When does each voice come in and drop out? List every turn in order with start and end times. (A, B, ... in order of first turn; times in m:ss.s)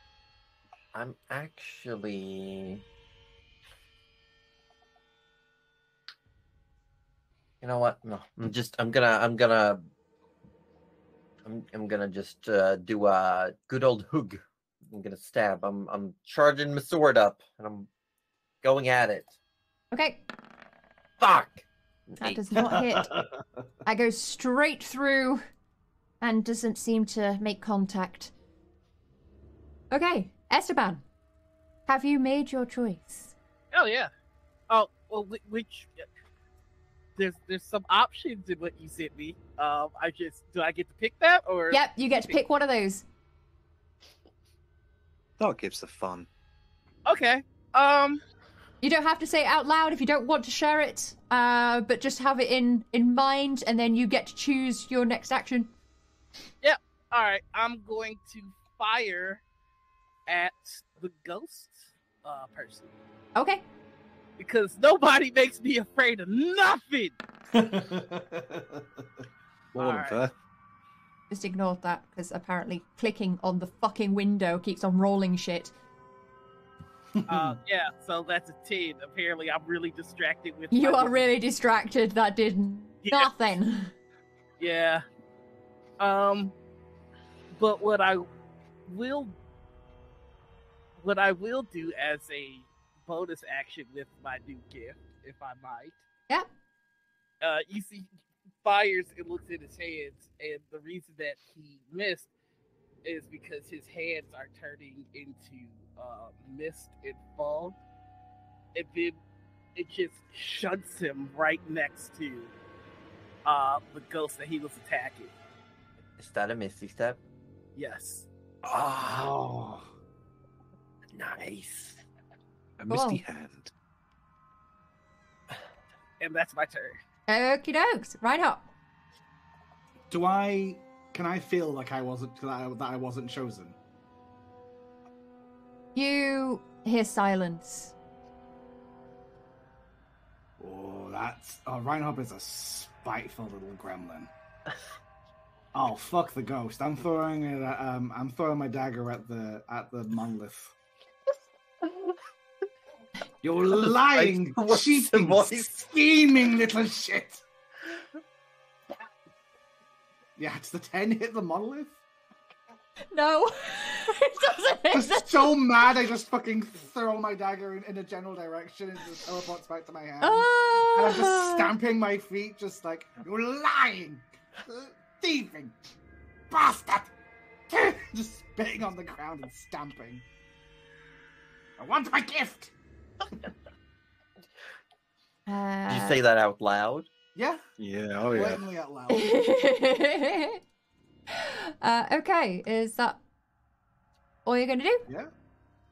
0:00.9-0:02.8 A
0:07.6-0:09.8 A
0:11.4-0:17.9 A
0:18.6-0:19.4 A
0:19.9-0:20.2 B
0:21.2-0:22.7 A
0:22.2-0:23.1 B
0:22.6-0:23.4 C
0:23.8-0:25.4 B
0:26.2-0:28.3 B
0:29.9-0:31.0 B
0:31.9-0:33.4 B
0:33.7-0:34.1 D
0:34.7-0:36.1 D
0:37.2-0:42.4 D
0:41.7-0:43.1 B
0:45.4-0:46.3 E
0:47.1-0:48.2 D
0:48.8-0:55.7 B
0:56.6-0:59.4 D
1:00.3-1:02.9 D
1:03.4-1:03.6 B
1:04.4-1:07.2 D
1:07.5-1:09.0 C
1:09.7-1:10.3 E
1:09.8-1:10.2 D
1:11.3-1:15.7 B
1:17.2-1:17.6 C
1:17.3-1:21.2 D
1:20.7-1:23.9 B
1:23.1-1:23.3 D
1:24.6-1:25.0 D
1:26.0-1:26.5 D
1:27.5-1:28.2 D
1:28.9-1:29.4 D
1:31.0-1:36.0 D
1:37.4-1:38.1 D
1:38.6-1:42.3 D
1:43.0-1:47.8 D
1:48.7-1:49.2 D
1:49.8-1:52.5 D
1:53.4-1:55.3 D
1:56.2-1:57.2 A
1:57.8-1:58.3 D
1:58.7-1:59.3 A
1:59.0-1:59.9 C
2:01.1-2:02.0 A
2:02.8-2:03.7 E
2:02.9-2:03.2 B
2:06.2-2:07.0 D
2:07.3-2:08.6 B
2:10.1-2:13.8 C
2:16.0-2:17.9 B
2:20.6-2:24.3 C
2:25.7-2:30.7 C
2:31.9-2:32.1 A
2:33.4-2:37.4 C
2:33.7-2:35.8 A
2:40.4-2:42.0 C
2:43.1-2:45.6 B
2:44.9-2:55.8 C
2:50.2-2:51.7 B
2:56.5-2:57.1 C
2:57.7-3:00.3 C
3:01.8-3:02.7 C
3:05.5-3:06.2 B
3:05.9-3:07.1 A
3:07.4-3:07.6 C
3:07.8-3:08.6 E
3:08.3-3:09.4 C
3:09.1-3:10.6 B
3:11.3-3:13.2 B
3:14.4-3:15.0 B